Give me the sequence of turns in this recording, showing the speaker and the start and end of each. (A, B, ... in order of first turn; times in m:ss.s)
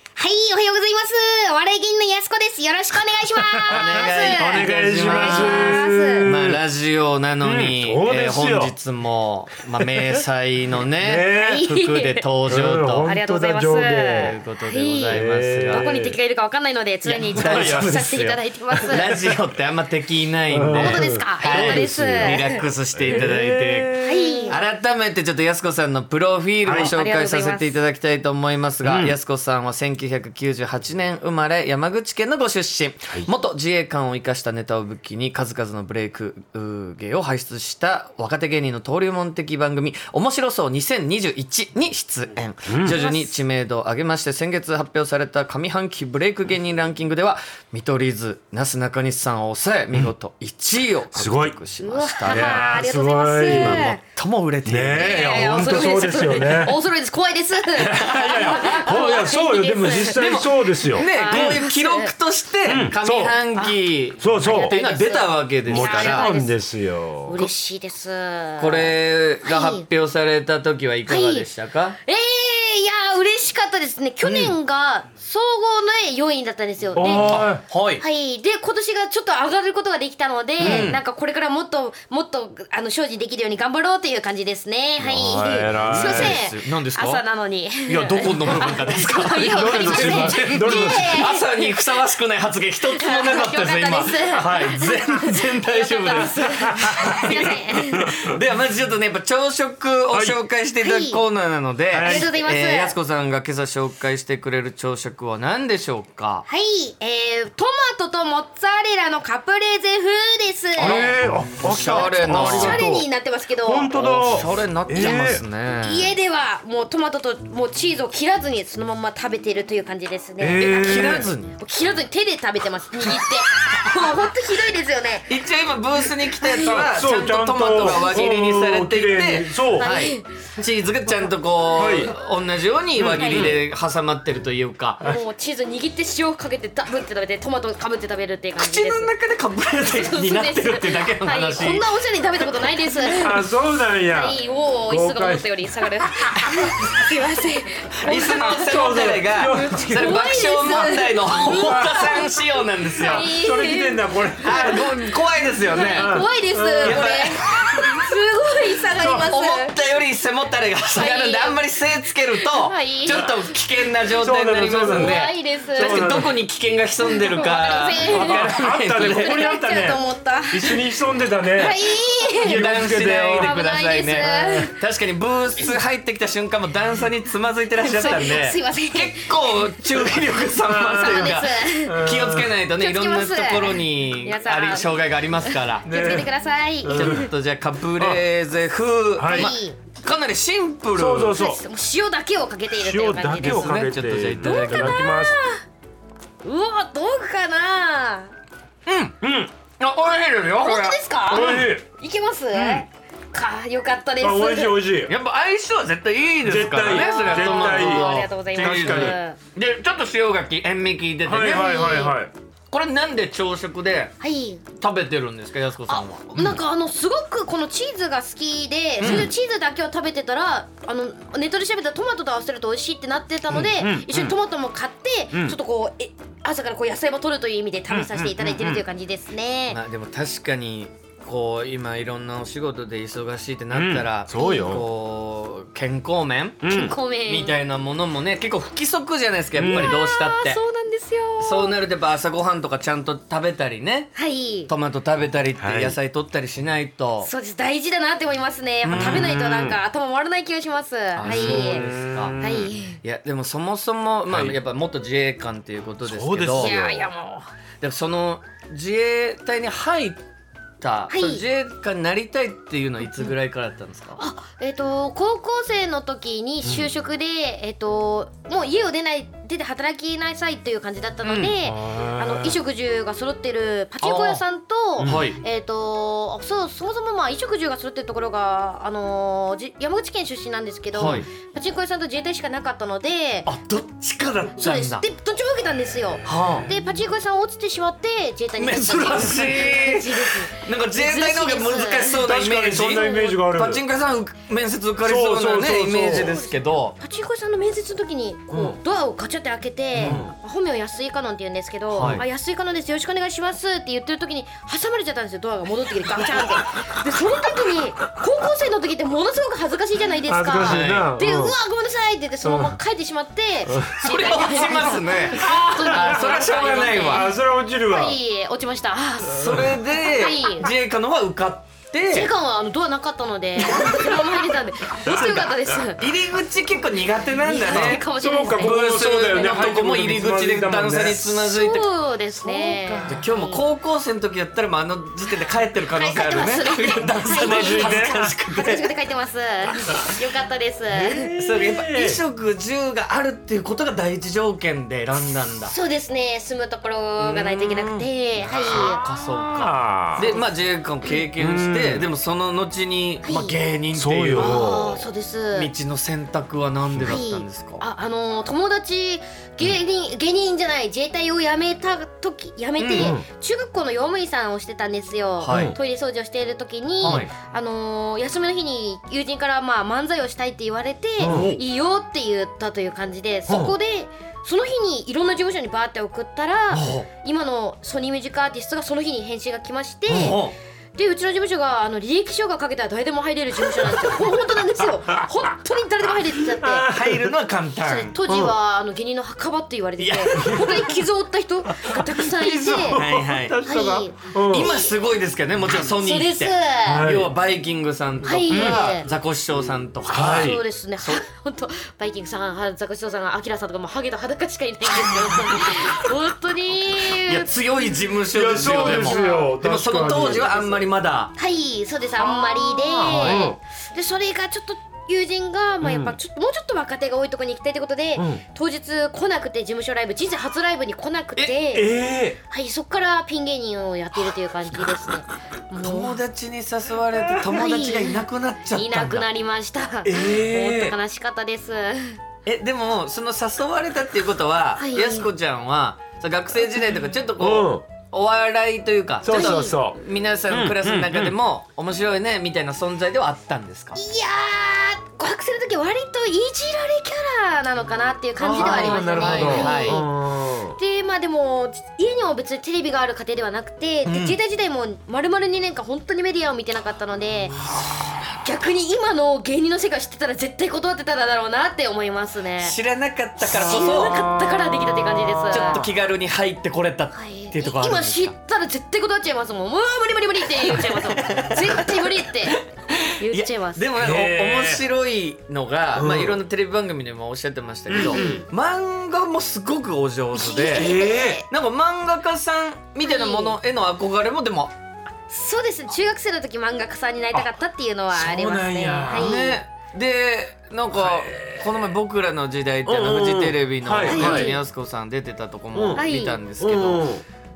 0:00.2-0:06.3 A
0:03.5-0:06.6 B
0:03.7-0:13.1 C
0:07.4-0:08.8 B
0:11.0-0:11.6 B
0:11.4-0:12.2 A
0:12.5-0:14.4 B
0:13.0-0:19.2 A
0:14.2-0:15.9 C
0:15.1-0:16.2 B
0:17.0-0:52.8 C
0:17.5-0:17.9 B
0:20.5-0:24.6 B
0:20.8-0:23.2 A
0:24.0-0:24.6 A
0:26.6-0:26.9 B
0:26.8-0:27.8 A
0:28.8-0:29.2 B
0:42.7-0:43.0 B
0:42.9-0:43.3 A
0:51.1-0:51.6 B
0:51.8-0:54.0 A
0:52.3-0:54.0 B
0:53.5-0:55.8 C
0:54.7-0:56.8 B
0:55.0-1:00.3 A
0:57.7-1:01.6 B
0:58.2-0:58.6 C
1:00.1-1:06.3 C
1:01.0-1:02.1 A
1:02.6-1:03.4 B
1:04.2-1:04.8 B
1:04.4-1:06.6 A
1:05.7-1:07.4 B
1:07.2-1:08.9 A
1:08.6-1:12.0 C
1:09.4-1:09.8 A
1:11.1-1:11.5 A
1:12.0-1:17.5 A
1:14.2-1:14.5 C
1:17.0-1:17.6 B
1:17.0-1:18.0 C
1:18.0-1:31.8 A
1:20.6-1:20.9 B
1:20.6-1:21.0 C
1:25.0-1:26.4 B
1:25.4-1:27.2 C
1:27.8-1:37.6 C
1:29.4-1:31.3 B
1:32.9-1:38.1 A
1:36.8-1:37.3 B
1:38.0-1:38.3 B
1:38.2-1:46.5 C
1:40.1-1:40.4 B
1:40.8-1:41.2 A
1:41.9-1:42.3 B
1:42.0-1:43.0 A
1:46.5-1:51.1 A
1:50.8-1:53.1 B
1:50.8-1:52.9 C
1:51.7-1:54.0 A
1:53.6-1:55.4 B
1:53.9-1:56.1 C
1:55.0-1:55.3 A
1:55.8-2:05.3 A
2:00.4-2:01.3 B
2:00.8-2:01.6 C
2:05.3-2:15.0 C
2:06.5-2:06.8 A
2:06.5-2:09.9 B
2:07.8-2:08.2 A
2:09.7-2:10.3 A
2:11.7-2:12.2 B
2:13.0-2:13.6 B
2:13.2-2:13.5 A
2:15.0-2:19.1 A
2:18.6-2:21.8 C
2:19.8-2:23.5 A
2:23.1-2:25.5 B
2:24.1-2:32.3 A
2:28.0-2:33.3 C
2:28.2-2:30.3 B
2:31.3-2:32.2 B
2:33.0-2:34.9 B
2:33.0-2:34.9 A
2:34.4-2:37.8 C
2:35.7-2:39.8 A
2:35.9-2:37.2 B
2:38.9-2:39.3 B
2:39.2-2:49.4 C
2:40.9-2:41.6 A
2:42.5-2:43.3 A
2:44.2-2:45.2 B
2:44.8-2:46.3 A
2:45.8-2:46.3 B
2:47.0-2:50.8 A
2:47.9-2:53.5 B
2:51.5-2:52.6 A
2:52.4-3:05.9 C
2:53.4-2:54.8 A
2:54.1-2:54.7 B
2:57.8-3:00.2 A
3:00.6-3:02.6 B
3:00.9-3:02.0 A
3:02.7-3:07.3 A
3:05.9-3:06.3 B
3:06.8-3:07.3 B
3:06.9-3:11.4 C
3:08.0-3:08.2 B
3:09.2-3:09.5 B
3:09.3-3:09.8 A
3:10.9-3:11.6 B
3:11.4-3:15.6 A
3:12.7-3:15.4 B
3:13.4-3:15.0 C
3:16.4-3:18.3 A
3:18.9-3:19.2 C
3:19.2-3:19.5 B
3:19.8-3:21.7 C
3:20.6-3:24.8 A
3:21.3-3:21.8 B
3:22.5-3:22.8 C
3:24.2-3:25.1 B
3:25.1-3:32.2 C
3:26.4-3:29.2 B
3:26.8-3:29.4 A
3:31.2-3:32.3 B
3:31.4-3:32.2 A
3:32.7-3:34.1 C
3:34.2-3:34.6 A
3:34.8-3:36.5 C
3:35.9-3:49.8 A
3:39.0-3:39.3 C
3:39.0-3:39.3 B
3:43.5-3:44.4 B
3:45.3-3:45.6 B
3:47.9-3:48.8 B
3:49.7-4:00.6 C
3:53.7-3:54.8 B
3:54.4-3:54.7 A
3:56.6-3:57.0 B
3:56.7-3:57.6 A
3:59.6-4:00.0 B
3:59.7-4:01.8 A
4:01.4-4:04.1 C
4:04.2-4:04.7 A
4:04.7-4:07.3 C
4:05.6-4:06.0 B
4:07.2-4:11.9 A
4:08.8-4:09.4 C
4:08.9-4:09.8 B
4:11.2-4:12.4 C
4:11.3-4:12.7 B
4:12.4-4:13.0 A
4:13.0-4:16.8 C
4:14.3-4:14.6 B
4:16.0-4:17.1 B
4:16.6-4:17.5 A
4:17.8-4:20.2 C
4:20.8-4:24.2 C
4:21.1-4:21.4 A
4:24.2-4:43.5 A
4:26.6-4:26.9 B
4:31.2-4:31.7 C
4:31.7-4:32.5 B
4:34.0-4:34.4 C
4:35.0-4:35.3 B
4:35.0-4:35.4 C
4:40.9-4:41.3 C
4:43.5-4:45.0 C
4:44.6-4:52.3 A
4:46.2-4:46.7 C
4:48.6-4:57.0 C
4:52.2-4:53.8 B
4:55.0-4:56.4 B
4:56.2-5:20.7 A
4:58.5-4:58.8 B
5:00.0-5:00.2 C
5:00.0-5:00.3 B
5:01.9-5:02.2 C
5:02.0-5:02.2 B
5:10.3-5:11.6 B
5:10.6-5:11.1 C
5:12.4-5:12.8 B
5:13.7-5:14.0 B
5:14.0-5:17.3 C
5:15.3-5:16.4 B
5:17.1-5:18.2 B
5:19.2-5:22.3 C
5:22.1-5:26.1 A
5:23.7-5:24.2 C
5:25.0-5:28.0 C
5:27.4-5:28.8 A
5:27.7-5:31.4 B
5:28.6-5:31.9 C
5:31.4-5:33.6 A
5:32.4-5:33.3 B
5:33.0-5:38.9 C
5:35.9-5:41.3 A
5:37.3-5:38.4 B
5:40.9-5:42.2 B
5:41.4-5:45.7 C
5:45.6-5:49.0 A
5:47.2-5:55.0 C
5:49.2-5:50.3 B
5:50.2-5:50.4 A
5:51.4-5:52.1 B
5:53.2-5:53.6 A
5:53.9-5:55.0 B
5:54.4-5:55.7 A
5:55.5-5:57.8 C
5:57.0-6:20.4 A
6:02.8-6:03.2 C
6:03.0-6:03.3 B
6:05.4-6:05.7 C
6:05.5-6:05.8 B
6:07.0-6:07.3 C
6:11.2-6:11.5 B
6:11.3-6:11.6 C
6:13.5-6:13.7 B
6:16.7-6:17.1 C
6:20.1-6:20.6 C
6:21.0-6:26.9 A
6:26.6-6:27.3 B
6:26.7-6:28.5 C
6:27.8-6:33.0 A
6:30.0-6:30.9 C
6:32.4-6:34.7 B
6:32.5-6:33.6 C
6:33.6-6:34.9 A
6:34.5-6:41.2 C
6:36.0-6:37.1 A
6:36.9-6:37.3 B
6:38.2-6:39.1 A
6:38.4-6:38.8 B
6:40.1-6:40.6 B
6:40.2-6:47.5 A
6:47.1-6:51.3 C
6:48.3-6:50.8 B
6:48.6-6:49.5 A
6:51.4-7:01.9 A
6:52.2-6:53.6 B
6:53.0-6:53.6 C
6:55.8-6:56.2 B
6:58.2-6:58.4 B
7:01.7-7:02.4 B
7:02.5-7:06.2 A
7:05.8-7:09.3 C
7:07.5-7:08.2 A
7:08.7-7:12.2 A
7:10.0-7:11.0 B
7:12.4-7:24.0 C
7:14.8-7:15.3 A
7:17.4-7:17.8 B
7:19.2-7:20.0 B
7:19.2-7:19.8 A
7:20.5-7:21.4 B
7:24.0-7:30.1 A
7:28.4-7:30.8 B
7:28.6-7:30.0 C
7:30.8-7:37.6 A
7:34.1-7:34.4 C
7:38.4-7:42.8 A
7:42.6-7:44.3 C
7:43.4-7:45.8 A
7:43.5-7:45.6 B
7:45.5-7:48.4 C
7:47.1-7:52.6 A
7:50.6-7:52.5 C
7:53.2-7:53.9 A
7:53.2-8:04.7 C
7:54.0-7:54.8 B
7:55.9-7:56.4 B
7:57.9-7:58.4 B
7:58.0-7:58.4 A
8:00.3-8:01.4 A
8:00.8-8:01.4 B
8:03.0-8:03.6 A
8:05.3-8:09.6 A
8:08.1-8:09.4 B
8:09.1-8:17.1 C
8:11.0-8:11.8 B
8:12.8-8:14.6 B
8:14.1-8:14.6 A
8:15.7-8:16.0 B
8:15.9-8:16.4 A
8:16.6-8:17.2 B